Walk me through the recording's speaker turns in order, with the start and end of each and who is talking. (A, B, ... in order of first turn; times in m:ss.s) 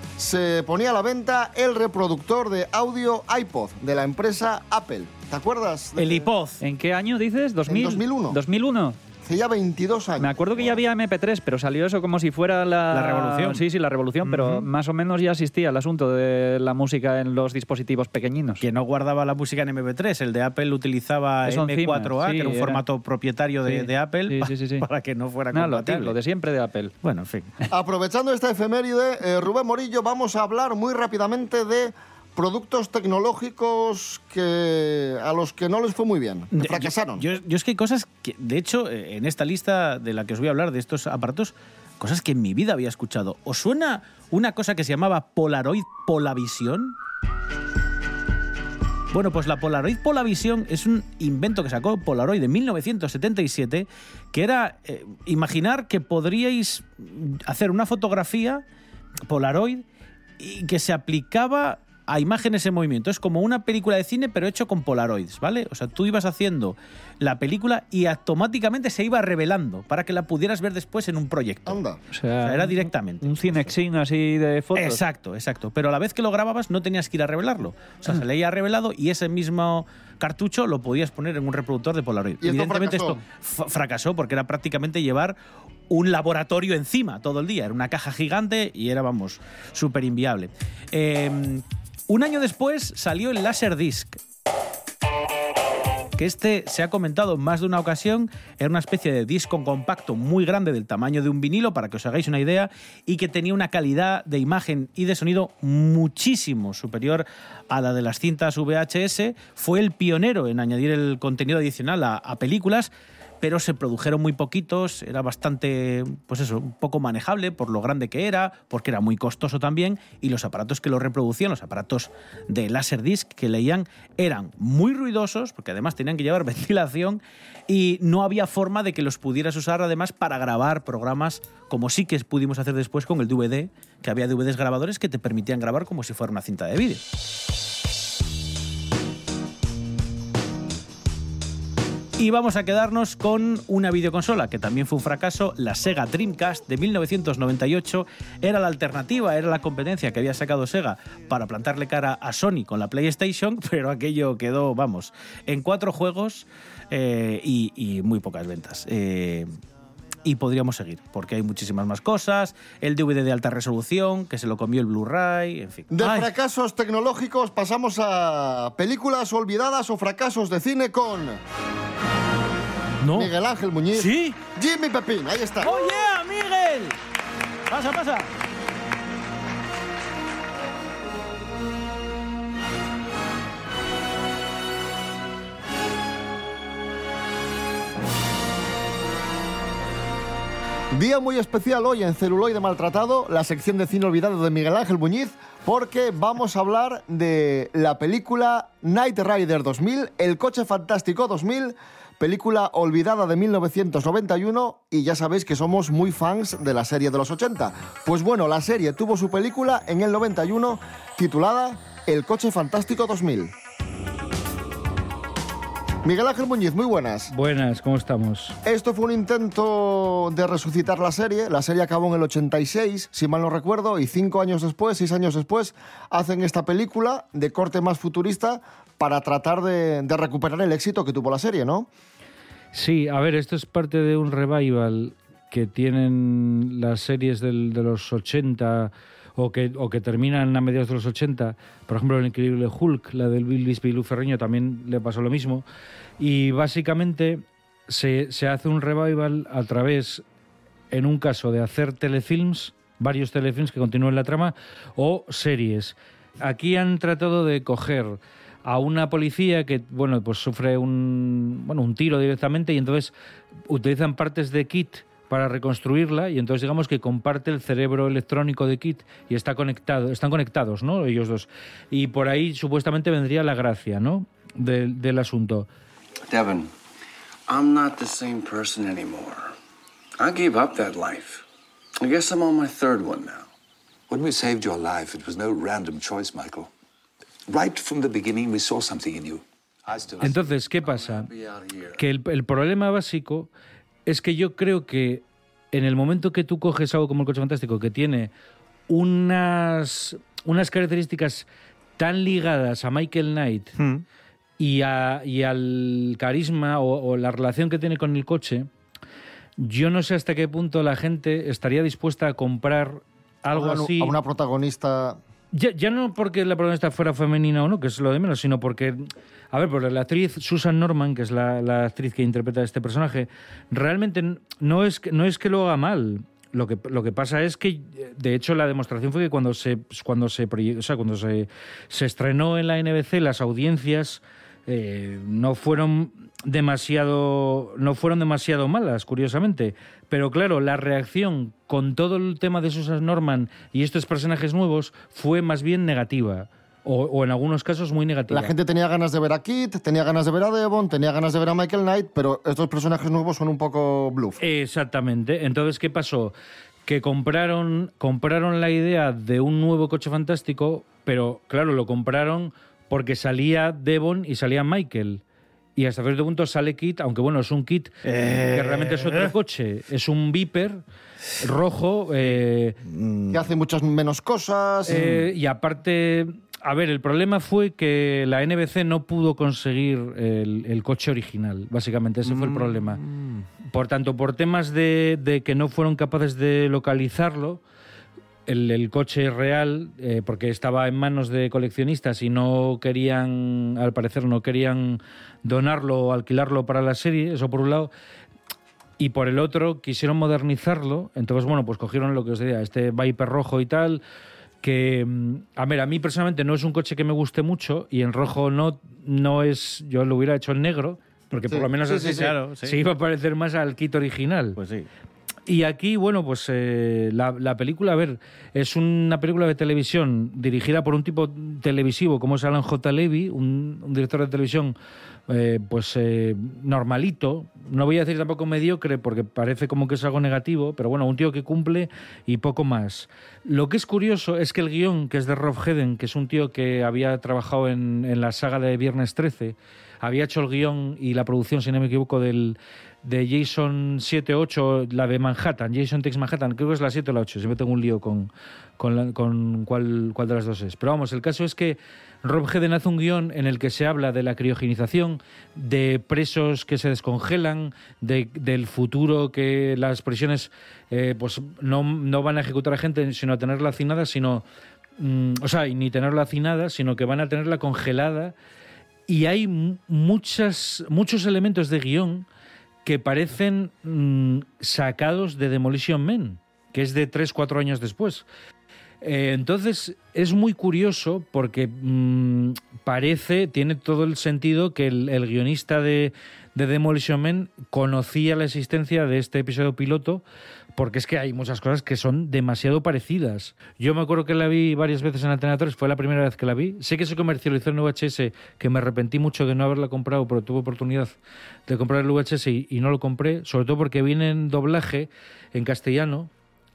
0:00.2-0:06.3 A
0:06.0-0:06.6 B
0:06.6-0:09.0 C
0:07.7-0:08.4 A
0:09.2-0:10.8 A
0:10.2-0:18.6 C
0:12.9-0:13.6 B
0:14.2-0:14.7 B
0:18.6-0:26.2 B
0:21.4-0:22.8 C
0:23.6-0:24.9 C
0:25.5-0:26.9 C
0:27.0-0:27.5 B
0:27.7-0:37.2 A
0:36.5-0:46.9 B
0:49.1-0:58.6 B
0:59.3-0:59.8 B
1:00.4-1:11.8 B
1:11.7-1:12.0 A
1:12.1-1:15.0 C
1:12.4-1:13.8 B
1:14.7-1:25.4 B
1:22.4-1:23.2 A
1:25.9-1:34.2 B
1:36.2-2:17.0 B
2:22.2-2:39.5 B
2:40.2-2:46.3 B
2:45.9-2:51.4 A
2:53.0-2:53.3 B
2:53.1-2:55.7 A
2:53.9-2:54.4 B
2:55.6-2:57.0 B
2:57.7-2:58.3 B
3:10.9-3:33.5 A
3:36.0-3:37.3 A
3:37.3-3:38.6 D
3:38.6-3:51.9 A
3:52.7-4:05.6 D
4:06.2-4:10.2 D
4:10.9-4:23.1 D
4:23.7-4:35.7 D
4:36.3-4:36.7 E
4:37.5-4:39.5 E
4:40.2-4:41.4 E
4:42.0-4:43.5 E
4:44.1-4:46.7 F
4:47.5-4:52.0 F
4:50.2-4:51.3 D
4:52.0-4:53.5 D
4:54.1-4:58.3 D
4:58.9-5:01.4 D
5:02.0-5:03.7 D
5:03.8-5:04.0 B
5:04.6-5:08.7 D
5:09.6-5:14.2 D
5:13.5-5:15.2 A
5:15.5-5:48.5 D
5:48.3-5:54.4 A
5:54.4-5:56.3 D
5:56.8-6:05.2 D
6:05.8-6:10.8 D
6:08.0-6:09.3 B
6:11.4-6:12.8 D
6:12.8-6:13.4 B
6:13.3-6:15.0 A
6:14.9-6:23.0 D
6:14.9-6:15.2 B
6:22.2-6:23.4 B
6:23.7-6:27.6 D
6:28.5-6:37.9 D
6:39.0-6:44.0 D
6:44.6-6:54.6 D
6:51.8-6:52.8 B
6:54.6-6:54.9 B
6:55.5-7:04.8 D
7:05.3-7:44.4 D
7:45.0-7:48.3 D
7:49.1-7:52.2 D
7:52.8-7:58.2 D
7:59.0-8:10.2 D
8:10.8-8:26.3 D